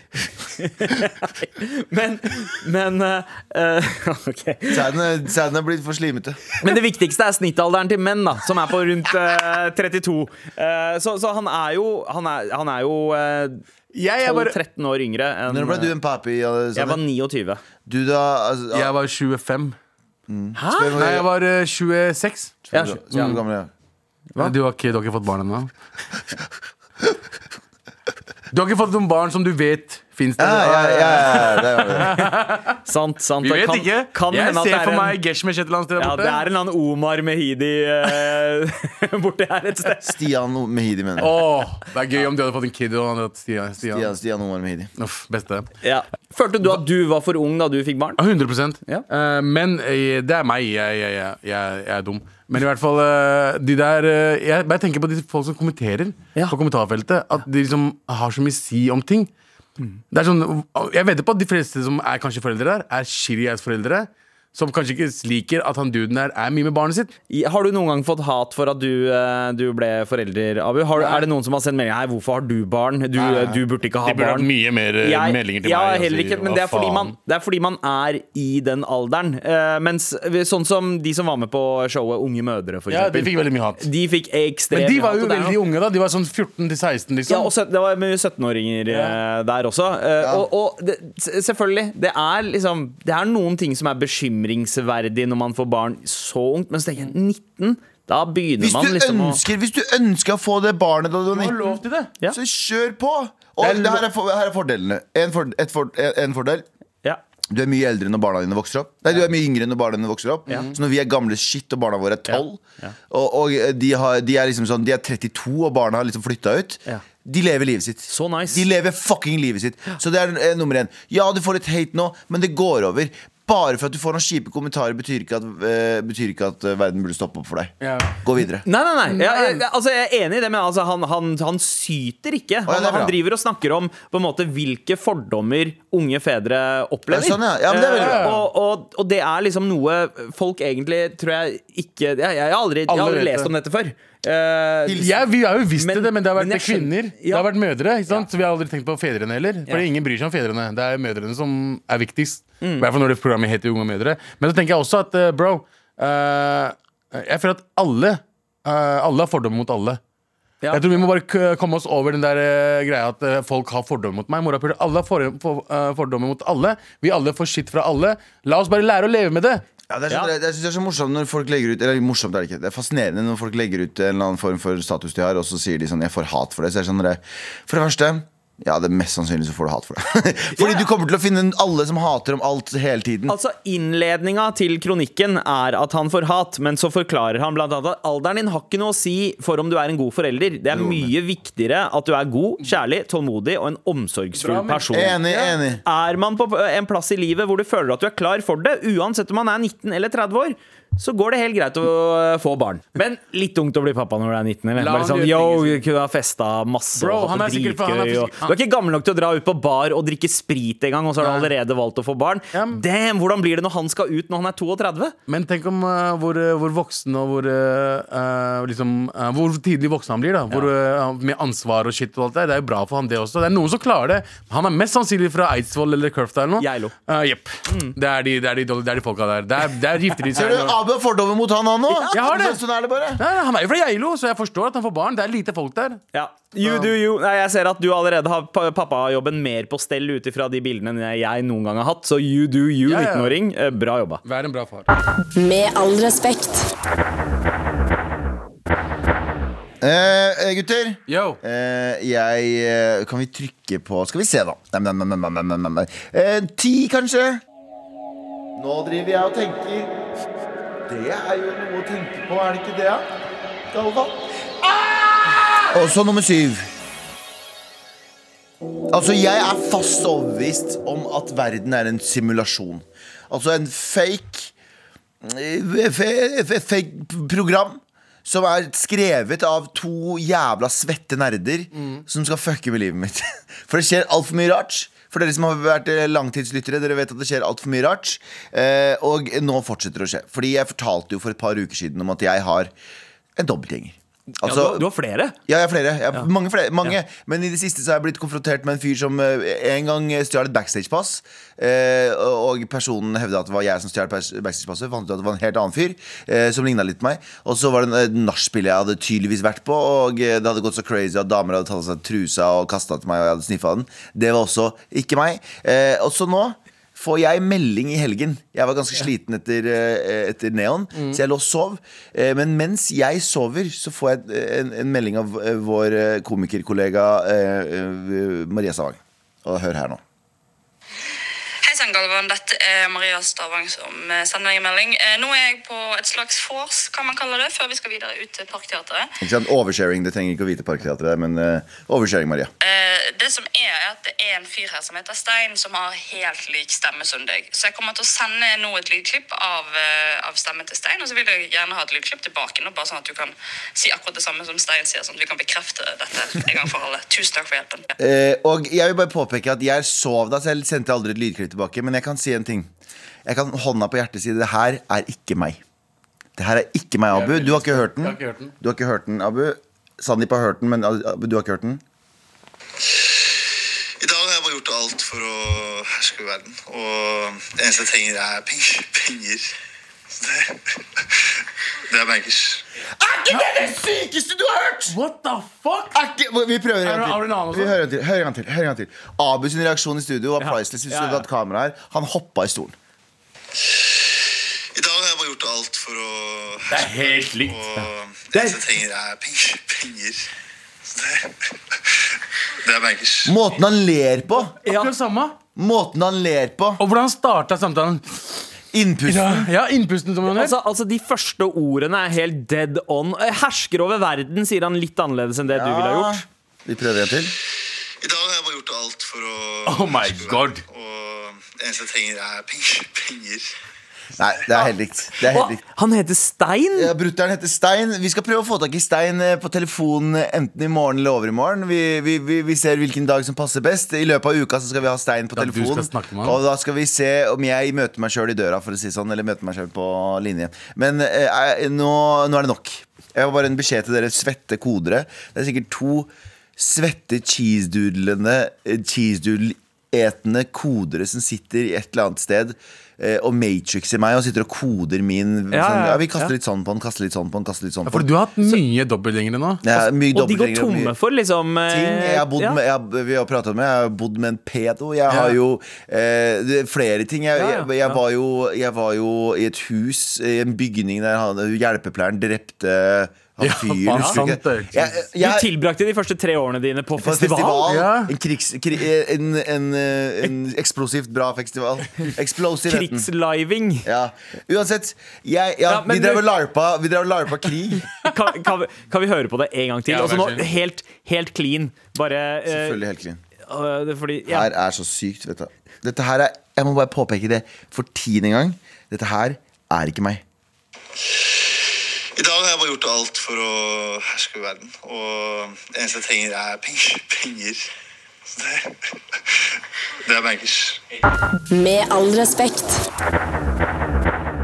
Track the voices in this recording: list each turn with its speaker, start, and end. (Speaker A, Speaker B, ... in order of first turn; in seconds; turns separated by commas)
Speaker A: 0.6-4.9, Speaker B: 4.7-6.5, Speaker A: 6.6-13.6, Speaker C: 13.9-14.6, Speaker A: 14.2-15.9, Speaker B: 15.5-17.0, Speaker A: 16.8-17.6, Speaker B: 17.9-18.9, Speaker C: 18.7-19.8, Speaker B: 20.3-21.3, Speaker A: 20.6-20.9, Speaker C: 21.0-23.4, Speaker A: 22.7-23.4, Speaker B: 22.7-23.7, Speaker C: 24.4-25.7, Speaker C: 28.5-32.8, Speaker B: 30.4-32.2, Speaker A: 32.9-35.2, Speaker C: 33.4-36.4, Speaker A: 36.0-40.1, Speaker B: 40.0-41.4, Speaker C: 41.2-44.1, Speaker B: 43.8-44.9, Speaker C: 45.0-45.7, Speaker A: 45.8-48.2, Speaker C: 48.2-59.3, Speaker C: 60.1-67.1, Speaker A: 67.3-74.5, Speaker C: 71.0-71.3, Speaker C: 73.2-77.2, Speaker A: 75.0-85.6, Speaker C: 82.9-83.9, Speaker C: 84.7-87.5, Speaker A: 87.3-99.4, Speaker C: 88.9-89.2, Speaker B: 90.2-90.5, Speaker B: 98.6-101.8, Speaker C: 101.3-102.1, Speaker B: 102.3-106.7, Speaker C: 103.6-104.0, Speaker B: 107.5-128.7, Speaker A: 112.3-112.9, Speaker A: 118.1-118.7, Speaker C: 127.8-128.2, Speaker A: 128.7-145.1, Speaker C: 129.1-129.6, Speaker B: 132.7-133.2, Speaker B: 137.1-138.3, Speaker C: 137.9-138.5, Speaker C: 142.9-143.5, Speaker B: 144.9-145.2, Speaker C: 145.0-160.0, Speaker A: 145.8-147.5, Speaker A: 152.6-152.9, Speaker A: 160.6-160.9, Speaker C: 160.7-169.6, Speaker B: 169.9-183.4, Speaker A: 180.6-180.9, Speaker A: 183.3-215.2, Speaker B: 190.7-191.1, Speaker C: 194.3-195.5, Speaker B: 194.9-195.8, Speaker C: 204.8-205.9, Speaker C: 207.0-208.6, Speaker C: 211.2-211.5, Speaker C: 212.5-212.8, Speaker C: 215.3-230.8, Speaker A: 226.6-226.9, Speaker A: 227.7-228.0, Speaker B: 230.3-233.2, Speaker C: 232.1-232.6, Speaker C: 233.2-236.0, Speaker A: 236.1-244.2, Speaker C: 236.6-236.9, Speaker C: 242.9-243.4, Speaker C: 244.2-244.9, Speaker D: 245.3-246.7, Speaker B: 249.8-257.4, Speaker C: 251.1-251.4, Speaker B: 258.6-259.9, Speaker B: 260.9-263.1, Speaker B: 263.7-266.7, Speaker B: 268.9-274.5, Speaker B: 275.2-292.7, Speaker C: 281.8-282.0, Speaker B: 293.4-294.9, Speaker A: 294.4-295.4, Speaker B: 295.5-330.0, Speaker E: 331.6-339.2, Speaker B: 339.2-342.5, Speaker E: 342.6-357.9, Speaker B: 358.0-362.7, Speaker B: 363.3-365.6, Speaker B: 366.4-371.8, Speaker C: 367.1-368.5, Speaker F: 372.8-379.6, Speaker F: 380.1-382.6, Speaker B: 383.0-385.0, Speaker C: 384.9-386.0, Speaker B: 385.9-392.8, Speaker C: 386.8-387.8, Speaker A: 390.4-391.2, Speaker F: 393.6-400.3, Speaker C: 396.7-397.9, Speaker A: 398.3-398.6, Speaker F: 400.9-403.4, Speaker B: 403.2-404.5, Speaker C: 404.6-405.4, Speaker A: 404.6-404.9, Speaker B: 405.6-406.8, Speaker C: 406.8-408.3, Speaker B: 408.7-409.5, Speaker C: 409.1-410.6, Speaker A: 410.3-416.2, Speaker B: 415.5-417.3, Speaker F: 418.0-423.6, Speaker C: 419.7-420.6, Speaker B: 424.2-425.6, Speaker A: 425.2-426.9, Speaker B: 426.7-458.1, Speaker C: 435.4-436.4, Speaker A: 455.5-456.3, Speaker C: 457.9-459.6, Speaker B: 459.6-460.9, Speaker A: 459.7-462.6, Speaker B: 461.7-475.5, Speaker C: 465.1-465.4, Speaker A: 467.4-467.7, Speaker C: 473.4-474.9, Speaker A: 473.9-474.2, Speaker A: 475.2-477.7, Speaker B: 477.0-483.1, Speaker C: 477.7-478.1, Speaker A: 482.6-483.9, Speaker B: 483.9-487.9, Speaker A: 485.7-486.3, Speaker A: 488.0-492.8, Speaker C: 489.9-490.5, Speaker B: 492.5-493.2, Speaker A: 493.5-494.5, Speaker B: 494.3-500.2, Speaker F: 501.0-507.7, Speaker F: 508.3-510.8, Speaker D: 511.5-512.9